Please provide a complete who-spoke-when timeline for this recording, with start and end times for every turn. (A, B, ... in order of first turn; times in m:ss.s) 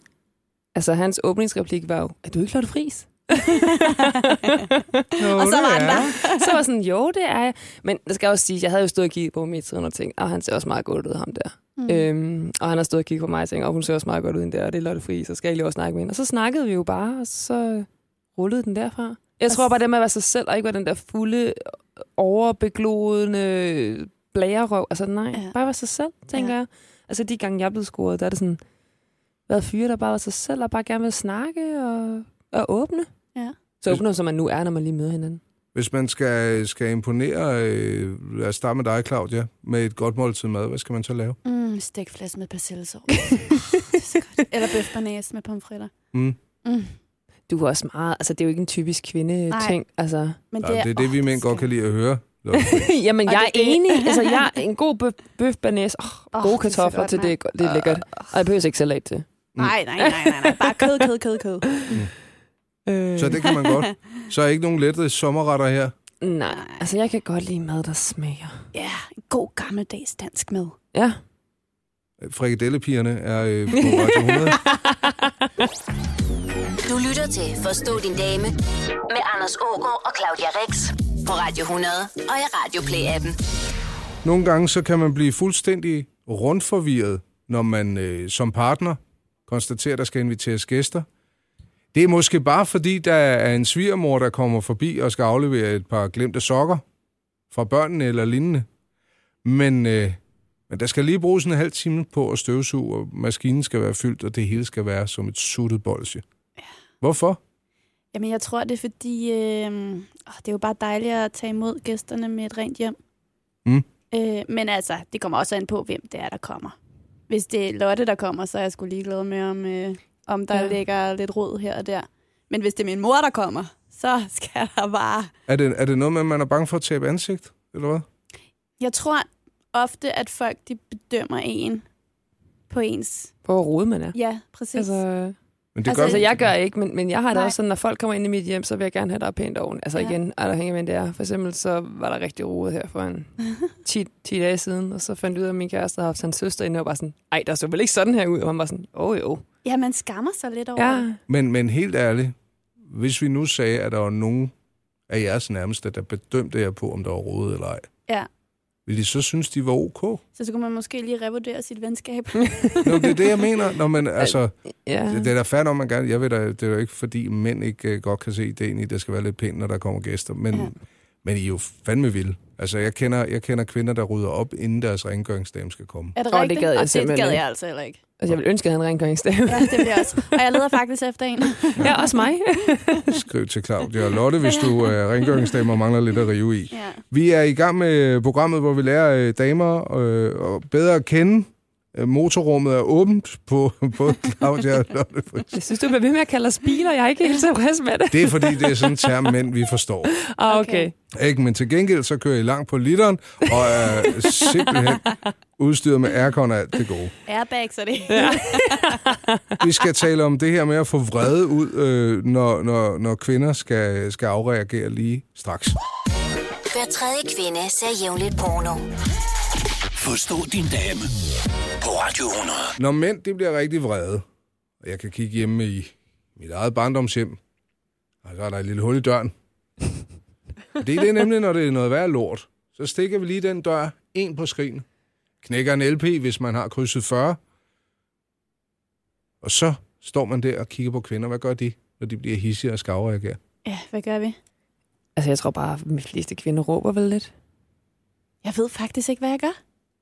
0:00.7-0:05.2 A
0:03.4-0:04.7 B
0:05.2-0:06.1 C
0:05.2-0:06.5 B
0:05.8-0:28.6 A
0:11.8-0:12.1 B
0:29.5-0:33.1 A
0:33.8-0:35.4 A
0:35.7-0:41.4 C
0:41.4-0:45.9 B
0:43.5-0:44.0 A
0:46.1-0:46.4 C
0:46.6-0:46.9 B
0:47.5-0:50.4 A
0:49.5-0:49.8 B
0:50.5-0:51.6 B
0:50.6-0:53.0 C
0:52.5-0:59.3 A
0:53.3-0:54.3 B
0:56.3-0:58.3 B
0:59.6-1:01.9 B
1:00.0-1:01.1 A
1:01.7-1:02.0 A
1:02.9-1:03.5 A
1:03.2-1:05.9 C
1:03.4-1:04.0 B
1:06.2-1:08.6 A
1:06.5-1:06.8 B
1:08.7-1:10.8 B
1:10.9-1:11.2 A
1:12.2-1:14.6 C
1:13.7-1:15.5 A
1:16.8-1:18.6 D
1:19.1-1:23.4 D
1:24.2-1:31.0 C
1:31.9-1:36.8 C
1:37.5-1:38.7 C
1:39.4-1:46.2 C
1:47.0-1:47.4 C
1:48.1-1:53.0 B
1:54.1-1:56.8 B
1:57.3-2:05.3 B
2:05.5-2:08.0 C
2:08.8-2:11.8 B
2:12.7-2:13.3 B
2:13.4-2:14.2 A
2:14.1-2:15.0 B
2:14.7-2:15.4 A
2:15.7-2:16.5 C
2:15.8-2:16.2 B
2:15.9-2:29.4 A
2:29.6-2:31.0 B
2:30.8-2:31.2 A
2:31.3-2:34.5 C
2:35.1-2:37.9 C
2:38.9-2:40.2 C
2:40.4-2:43.2 B
2:42.4-2:43.2 A
2:42.8-2:44.5 C
2:44.2-2:45.3 A
2:45.1-2:56.2 C
2:56.1-2:58.0 B
2:56.3-2:57.4 A
2:58.2-3:00.6 A
2:59.5-3:02.2 B
3:01.8-3:03.2 A
3:03.1-3:15.6 C
3:04.4-3:04.8 B
3:06.7-3:07.0 B
3:15.5-3:19.1 A
3:18.1-3:20.1 C
3:20.1-3:20.9 A
3:20.5-3:20.9 B
3:21.1-3:27.1 C
3:23.8-3:25.2 A
3:27.3-3:29.0 B
3:28.1-3:29.6 A
3:29.6-3:35.8 C
3:36.7-3:38.9 D
3:39.9-3:41.1 E
3:41.8-3:42.7 E
3:42.8-3:44.2 C
3:44.8-3:47.4 C
3:48.2-3:49.3 C
3:50.8-3:54.8 C
3:55.4-3:57.4 C
3:59.4-4:03.4 C
4:03.6-4:04.4 B
4:05.2-4:07.3 A
4:08.4-4:09.6 B